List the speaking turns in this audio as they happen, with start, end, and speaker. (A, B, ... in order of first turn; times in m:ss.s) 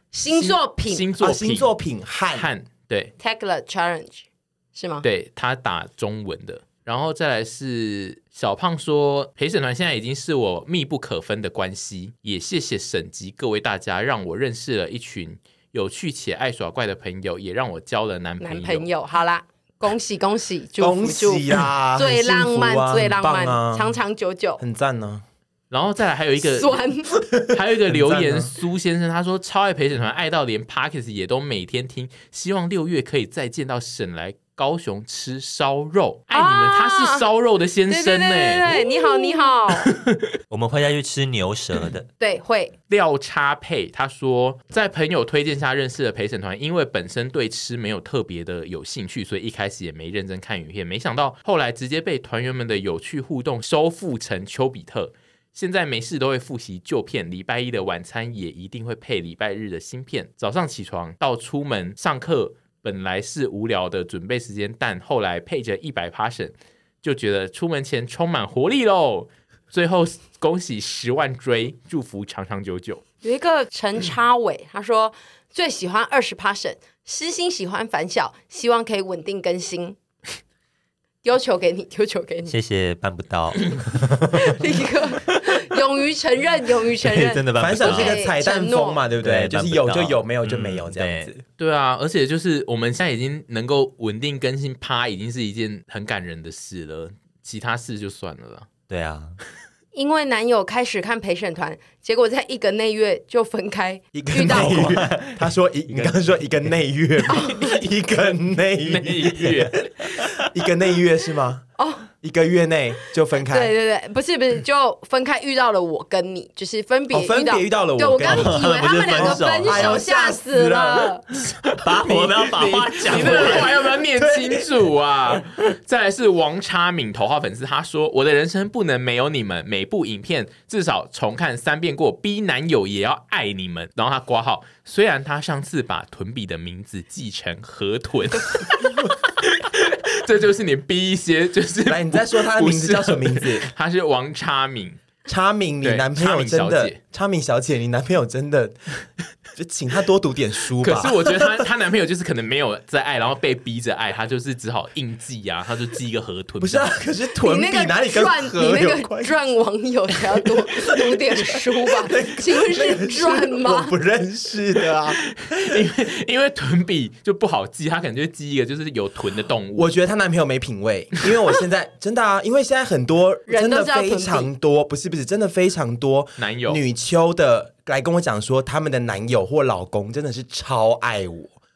0:00.1-0:01.1 A
0:00.3-0:01.7 B
0:01.2-0:02.5 C
0:02.3-0:03.1 B
0:03.2-0:05.0 A
0:05.0-0:18.9 B
0:18.4-0:24.6 A
0:20.8-0:24.0 C
0:24.6-0:25.2 C
0:25.7-0:26.8 B
0:26.4-0:27.1 A
0:27.4-0:40.3 B
0:27.9-0:28.5 C
0:36.3-0:37.2 A
0:37.9-0:39.9 A
0:40.5-0:42.1 D
0:42.2-0:42.7 A
0:42.9-1:13.0 B
1:13.2-1:20.0 A
1:21.2-1:22.5 A
1:22.5-1:24.7 D
1:24.3-1:29.0 A
1:27.0-1:28.2 D
1:27.6-1:31.4 C
1:29.2-1:31.3 D
1:31.6-1:38.7 B
1:38.9-1:39.4 D
1:40.0-1:44.9 A
1:44.1-1:49.7 C
1:44.5-1:46.2 D
1:48.8-1:49.9 B
1:50.2-1:51.6 C
1:51.8-1:52.1 A
1:52.2-1:53.7 C
1:53.5-2:01.2 A
1:57.1-2:01.1 C
1:58.2-2:00.0 D
2:01.6-2:25.0 B
2:01.8-2:03.7 D
2:03.1-2:04.7 C
2:21.9-2:23.7 C
2:25.3-2:28.8 C
2:25.8-2:27.0 B
2:29.6-2:31.6 C
2:30.8-2:36.9 B
2:36.6-2:39.3 C
2:37.4-2:43.9 A
2:40.2-2:45.2 C
2:45.1-2:49.9 B
2:49.8-3:01.5 C
2:53.5-2:54.5 A
2:56.4-2:56.8 B